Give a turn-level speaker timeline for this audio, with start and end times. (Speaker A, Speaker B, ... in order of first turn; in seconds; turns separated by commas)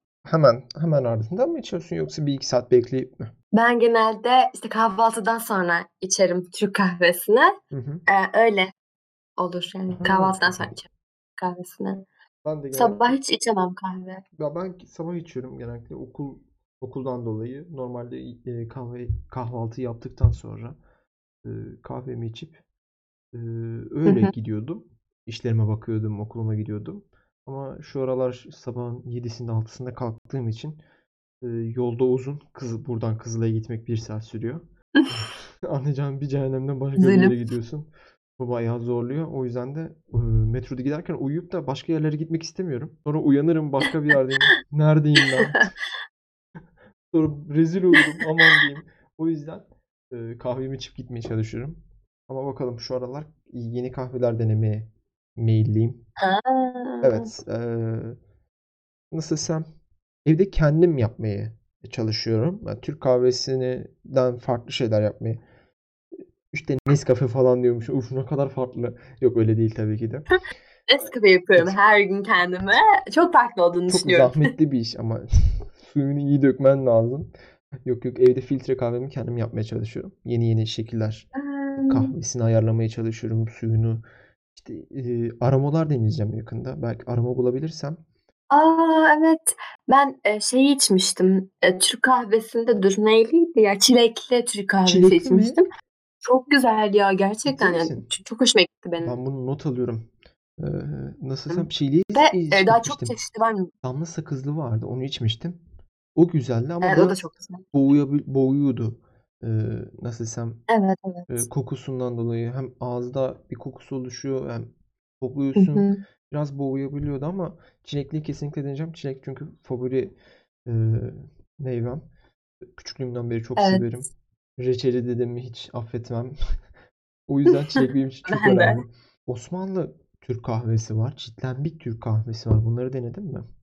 Speaker A: 0.2-3.3, Speaker B: 3.5-7.5, Speaker A: 7.7-8.0, Speaker B: 8.1-8.7, Speaker B: 9.4-10.9, Speaker A: 9.9-10.8, Speaker B: 11.4-12.1, Speaker A: 12.4-13.2, Speaker B: 12.7-14.2, Speaker A: 14.4-20.8, Speaker A: 21.4-22.6, Speaker A: 23.3-30.8, Speaker B: 24.1-24.3, Speaker A: 31.4-45.7, Speaker B: 37.0-37.4, Speaker A: 47.1-56.0, Speaker B: 56.2-57.3, Speaker A: 57.0-58.2, Speaker A: 59.1-59.7, Speaker A: 60.2-65.4, Speaker A: 66.5-70.3, Speaker B: 70.9-74.5, Speaker A: 73.9-77.3, Speaker A: 77.8-81.3, Speaker B: 81.4-82.1, Speaker A: 81.8-84.0, Speaker A: 84.6-88.0, Speaker B: 88.5-95.7, Speaker A: 94.9-95.6, Speaker B: 96.2-99.2, Speaker A: 97.5-98.1, Speaker A: 99.0-103.2, Speaker B: 101.5-103.7, Speaker A: 103.8-105.6, Speaker A: 106.2-107.2, Speaker B: 106.8-107.6, Speaker A: 107.7-110.6, Speaker B: 110.7-111.5, Speaker A: 111.3-114.7, Speaker A: 115.2-120.1, Speaker B: 115.5-116.0, Speaker A: 120.7-122.0, Speaker A: 122.7-126.3, Speaker B: 123.6-123.9, Speaker A: 127.3-133.4, Speaker B: 127.5-128.8